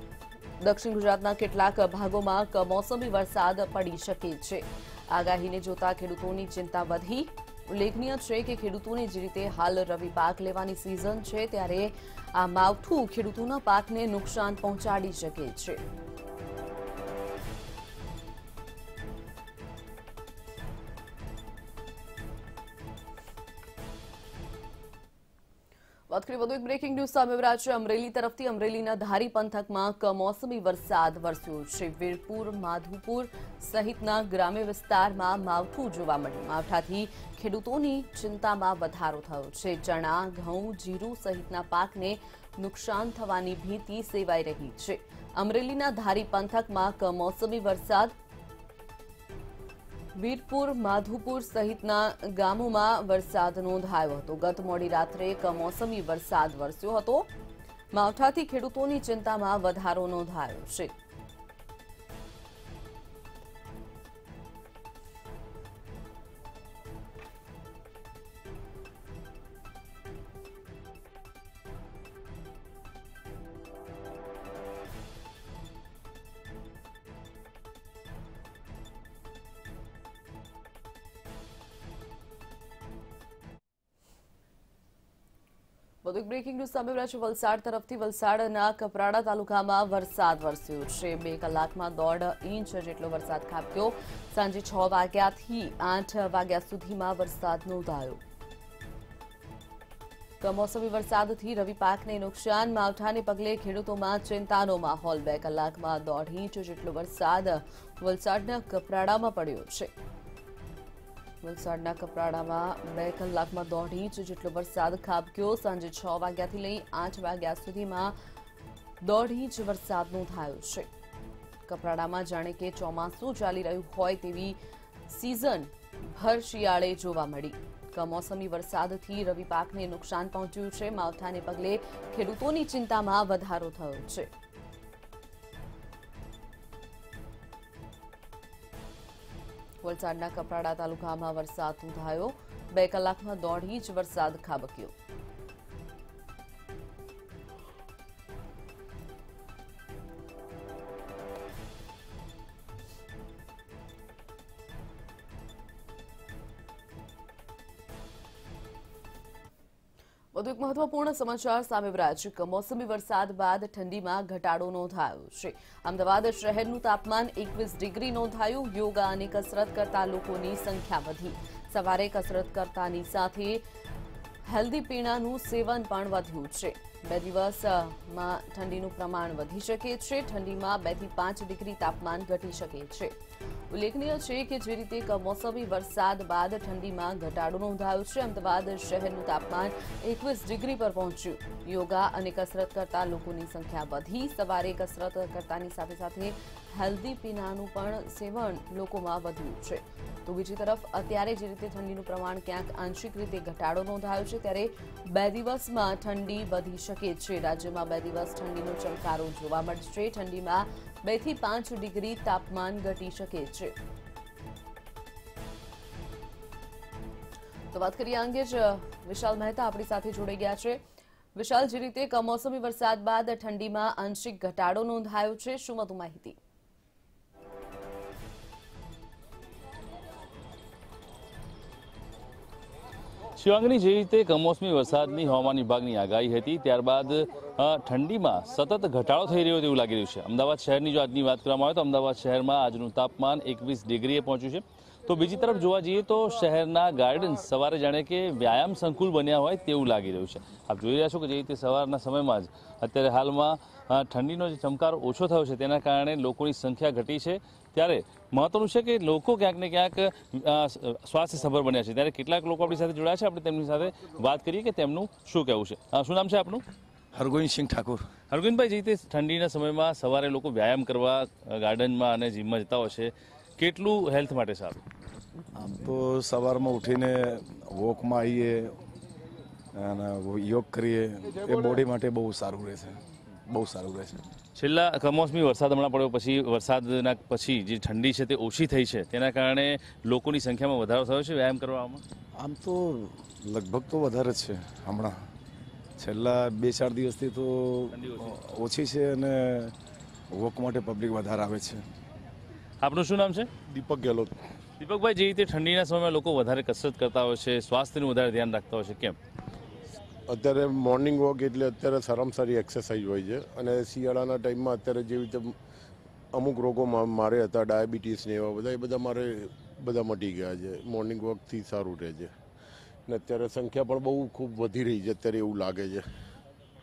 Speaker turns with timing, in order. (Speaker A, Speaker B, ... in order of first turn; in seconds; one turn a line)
Speaker A: 0.6-15.8
Speaker A: 26.1-48.1
Speaker A: 50.2-57.3
Speaker A: 57.9-61.0
Speaker A: 86.0-98.2
Speaker A: 100.4-109.9
Speaker A: 111.4-118.2
Speaker A: 119.0-120.9
Speaker A: 121.7-134.3
Speaker A: 139.8-144.9
Speaker A: 160.3-173.7
Speaker A: 174.4-183.2
Speaker A: 183.7-213.8
Speaker A: 217.7-220.8
Speaker A: 221.3-226.4
Speaker B: 233.4-266.6
Speaker C: 267.1-268.1
Speaker B: 268.3-274.8
Speaker C: 275.5-278.8
Speaker C: 279.8-284.2
Speaker B: 284.6-292.0
Speaker C: 292.4-295.3
Speaker C: 296.0-299.8
Speaker B: 297.9-298.4
Speaker C: 300.3-301.8
Speaker B: 302.8-303.5
Speaker D: 303.7-304.4
Speaker B: 304.8-309.2
Speaker D: 310.3-315.5
Speaker D: 316.3-322.3
Speaker D: 323.1-326.0